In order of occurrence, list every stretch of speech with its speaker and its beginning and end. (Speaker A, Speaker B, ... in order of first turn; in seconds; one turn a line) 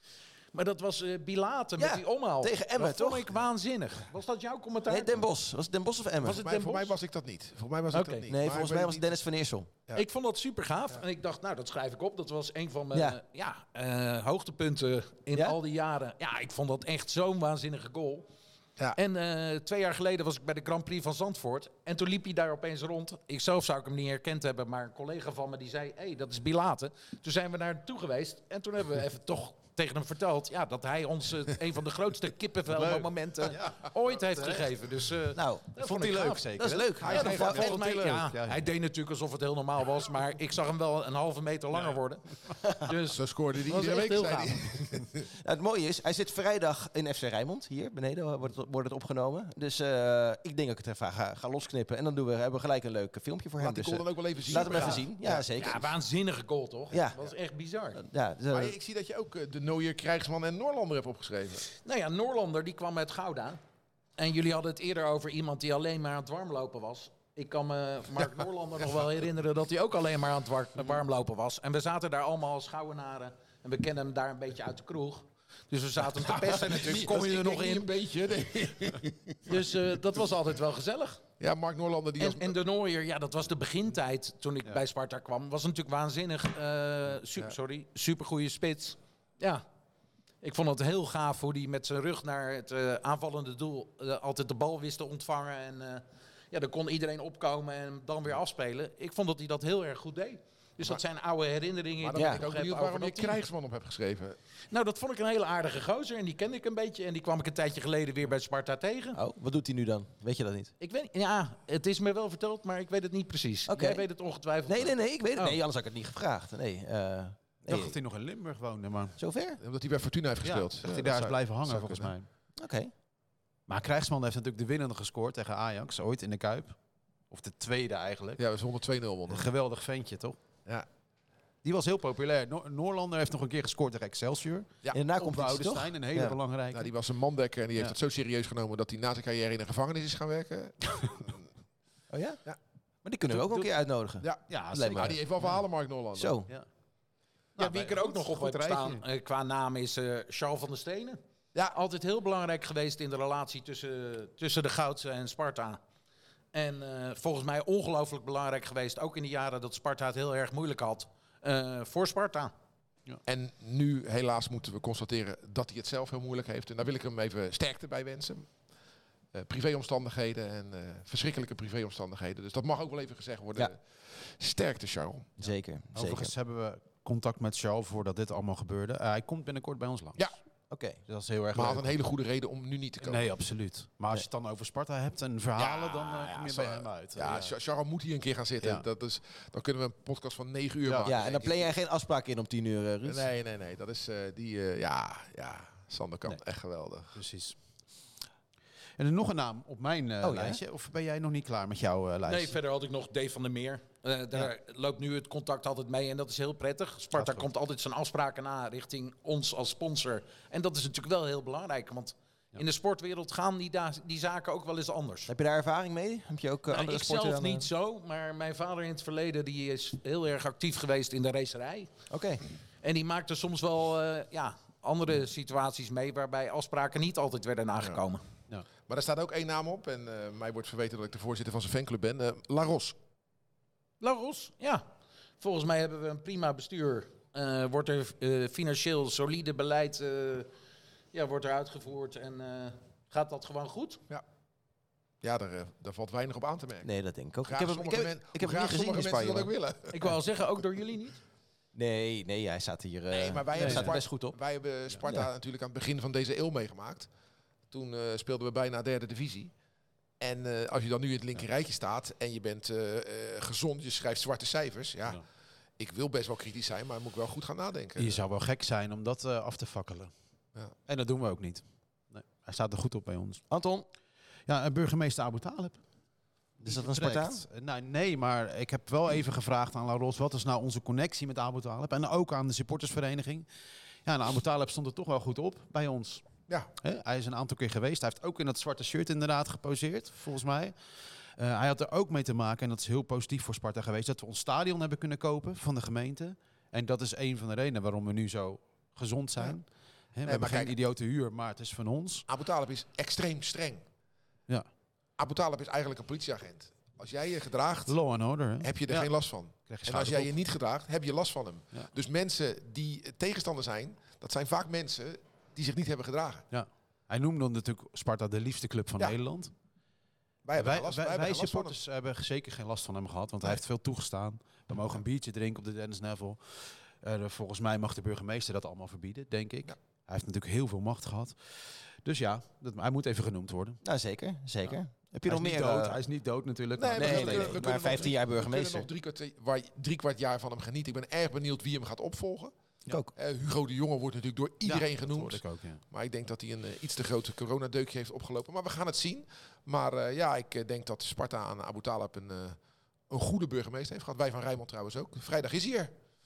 Speaker A: 0.5-5.2
Speaker B: 1.8-3.3
Speaker B: 4.9-6.5
Speaker A: 6.2-6.9
Speaker C: 6.2-9.1
Speaker A: 7.9-8.3
Speaker B: 8.3-9.7
Speaker A: 9.9-18.2
Speaker B: 12.9-13.2
Speaker A: 18.9-44.6
Speaker D: 32.7-34.6
Speaker B: 35.3-35.8
Speaker D: 35.8-38.6
Speaker B: 36.5-37.8
Speaker C: 37.0-38.1
Speaker C: 43.1-45.3
Speaker B: 45.3-55.9
Speaker C: 53.6-55.5
Speaker A: 54.5-55.0
Speaker A: 55.5-58.0
Speaker B: 56.9-57.2
Speaker B: 57.9-58.7
Speaker C: 58.5-61.7
Speaker A: 61.8-63.6
Speaker A: 64.2-77.9
Speaker C: 76.1-79.6
Speaker A: 79.4-81.2
Speaker C: 81.4-82.5
Speaker A: 82.2-89.6
Speaker A: 90.4-103.4
Speaker C: 102.0-104.4
Speaker B: 102.1-102.4
Speaker A: 104.7-109.2
Speaker B: 109.1-110.7
Speaker A: 110.8-115.6
Speaker B: 113.7-114.0
Speaker B: 114.7-118.0
Speaker D: 117.7-119.2
Speaker B: 119.2-119.6
Speaker C: 119.6-122.1
Speaker D: 120.4-122.3
Speaker B: 122.6-122.9
Speaker D: 123.7-126.8
Speaker D: 127.3-128.4
Speaker C: 128.4-129.5
Speaker D: 129.3-130.4
Speaker D: 131.6-136.9
Speaker B: 134.9-136.4
Speaker C: 136.7-141.5
Speaker B: 142.1-142.4
Speaker B: 143.0-145.2
Speaker D: 143.3-143.7
Speaker C: 144.2-146.4
Speaker D: 144.5-145.6
Speaker B: 146.1-146.5
Speaker D: 147.6-149.0
Speaker A: 147.6-155.8
Speaker A: 156.5-162.5
Speaker C: 163.2-168.5
Speaker C: 169.3-175.3
Speaker B: 175.4-176.3
Speaker D: 175.4-180.2
Speaker B: 180.7-181.0
Speaker D: 181.1-181.9
Speaker C: 181.5-183.2
Speaker D: 183.0-187.5
Speaker C: 185.6-191.7
Speaker D: 190.8-191.1
Speaker B: 191.0-193.3
Speaker C: 193.0-197.2
Speaker D: 197.1-197.6
Speaker D: 199.0-202.6
Speaker B: 200.2-200.6
Speaker A: 202.2-215.3
Speaker D: 207.1-207.4
Speaker B: 215.3-217.7
Speaker A: 216.7-221.9
Speaker B: 222.1-222.4
Speaker A: 222.8-228.2
Speaker C: 228.9-232.9
Speaker A: 234.0-234.8
Speaker A: 235.4-240.5
Speaker A: 241.1-244.0
Speaker C: 245.2-246.9
Speaker B: 246.8-249.5
Speaker C: 247.4-249.9
Speaker A: 249.9-251.2
Speaker B: 251.7-254.4
Speaker C: 253.1-257.1
Speaker D: 253.5-253.9
Speaker C: 257.7-259.5
Speaker C: 260.2-265.2
Speaker C: 265.8-268.2
Speaker D: 268.0-270.1
Speaker D: 270.9-273.4
Speaker B: 273.5-273.9
Speaker D: 274.5-275.8
Speaker B: 276.6-277.4
Speaker D: 276.6-283.4
Speaker D: 284.0-286.2
Speaker D: 286.8-290.7
Speaker D: 291.4-302.2
Speaker C: 300.2-300.7
Speaker C: 302.3-303.8
Speaker C: 305.2-308.0
Speaker D: 307.9-309.1
Speaker C: 308.6-316.5
Speaker D: 309.7-310.3
Speaker D: 316.5-319.5
Speaker C: 320.4-321.8
Speaker D: 320.6-333.8
Speaker B: 333.8-336.0
Speaker D: 335.2-338.1
Speaker C: 336.8-342.5
Speaker B: 336.9-338.9
Speaker B: 342.9-343.1
Speaker C: 343.1-352.6
Speaker D: 344.6-345.8
Speaker C: 353.1-355.9